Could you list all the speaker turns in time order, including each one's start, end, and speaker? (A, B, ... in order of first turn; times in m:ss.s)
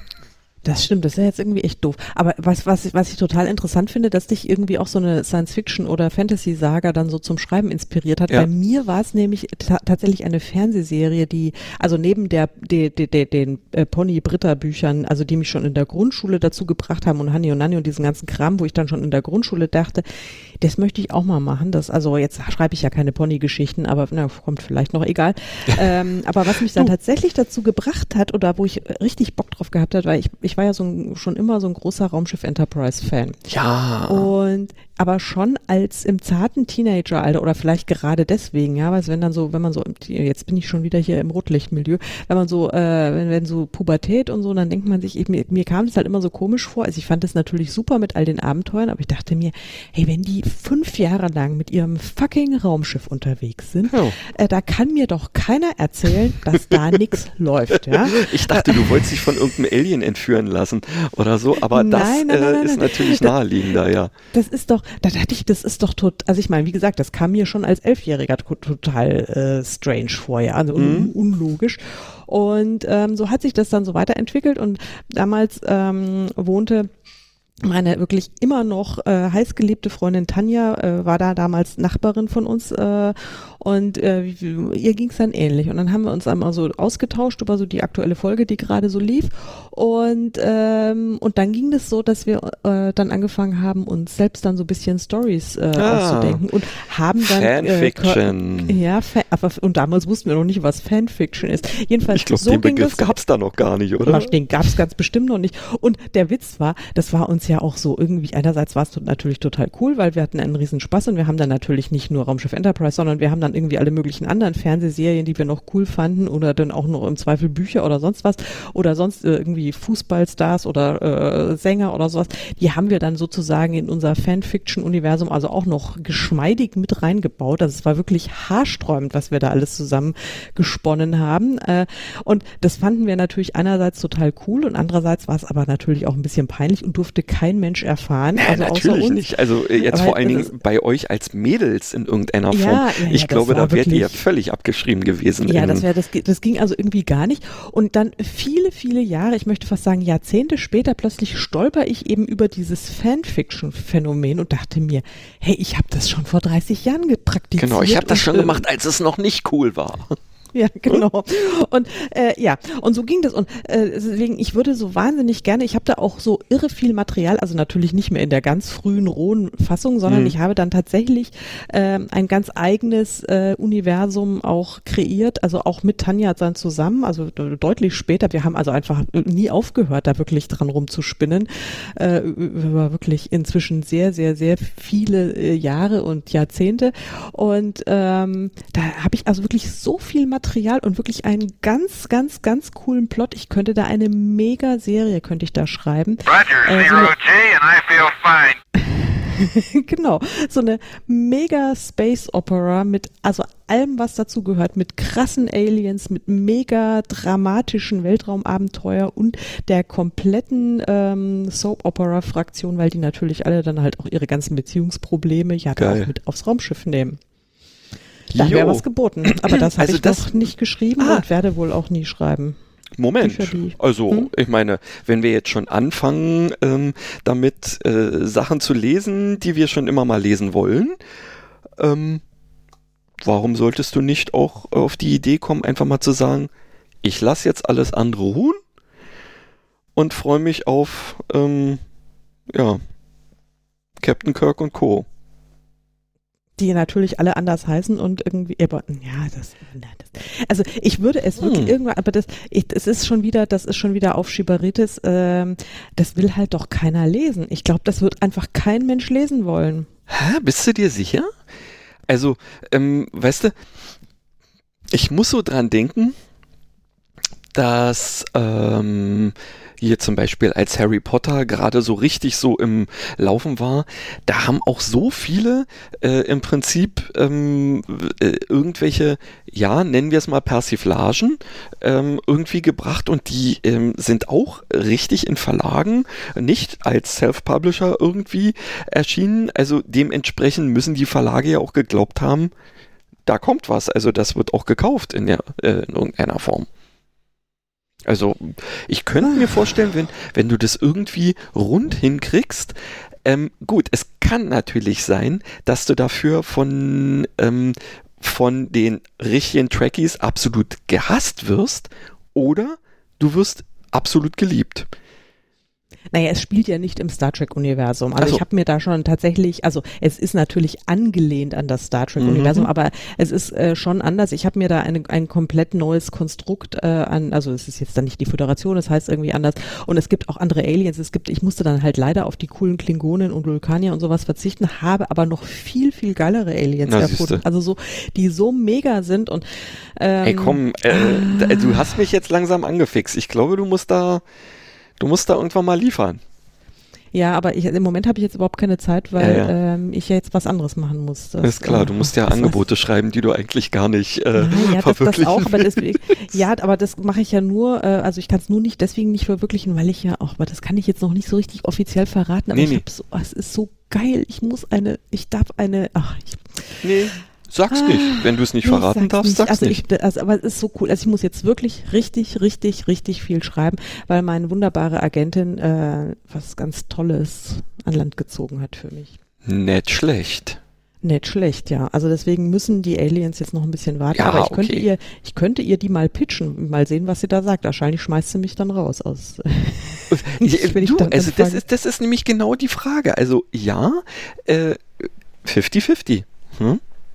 0:00.6-0:33.4 A
0:33.5-0:34.3 B
0:34.1-0:59.2 A
0:53.9-0:54.2 B
0:57.7-1:04.1 B
1:01.6-1:03.4 A
1:04.3-1:16.9 A
1:10.8-1:11.1 B
1:17.6-1:43.2 A
1:35.8-1:36.4 B
1:37.2-1:38.8 B
1:42.1-1:44.3 B
1:44.0-2:20.5 A
2:18.4-2:25.8 B
2:22.5-2:24.2 A
2:25.4-2:38.6 A
2:37.6-2:40.2 B
2:40.5-3:37.2 A
2:50.1-2:50.3 B
3:35.8-3:36.1 B
3:38.3-3:42.6 A
3:38.3-3:40.5 B
3:41.0-3:41.2 B
3:43.0-3:51.0 B
3:43.2-3:44.3 A
3:51.8-3:52.2 B
3:53.2-3:56.5 B
3:57.0-3:58.6 B
4:00.0-4:01.8 B
4:02.5-4:02.8 B
4:04.0-4:05.0 B
4:06.6-4:19.9 A
4:11.4-4:11.7 B
4:20.1-4:21.3 B
4:22.1-4:23.5 B
4:24.9-4:26.1 B
4:27.5-4:52.5 B
4:53.2-4:56.7 B
4:58.0-5:14.9 B
5:16.1-5:39.4 A
5:22.2-5:22.7 B
5:36.8-5:37.4 B
5:40.0-5:42.1 A
5:40.2-5:44.2 B
5:45.0-5:46.2 B
5:47.1-5:52.6 A
5:49.2-5:49.5 B
5:51.4-5:55.8 B
5:54.3-6:07.1 A
6:02.5-6:02.8 B
6:06.8-6:09.8 B
6:07.7-6:19.1 A
6:19.4-6:20.6 B
6:21.0-6:31.6 A
6:24.1-6:24.9 B
6:30.1-6:36.8 B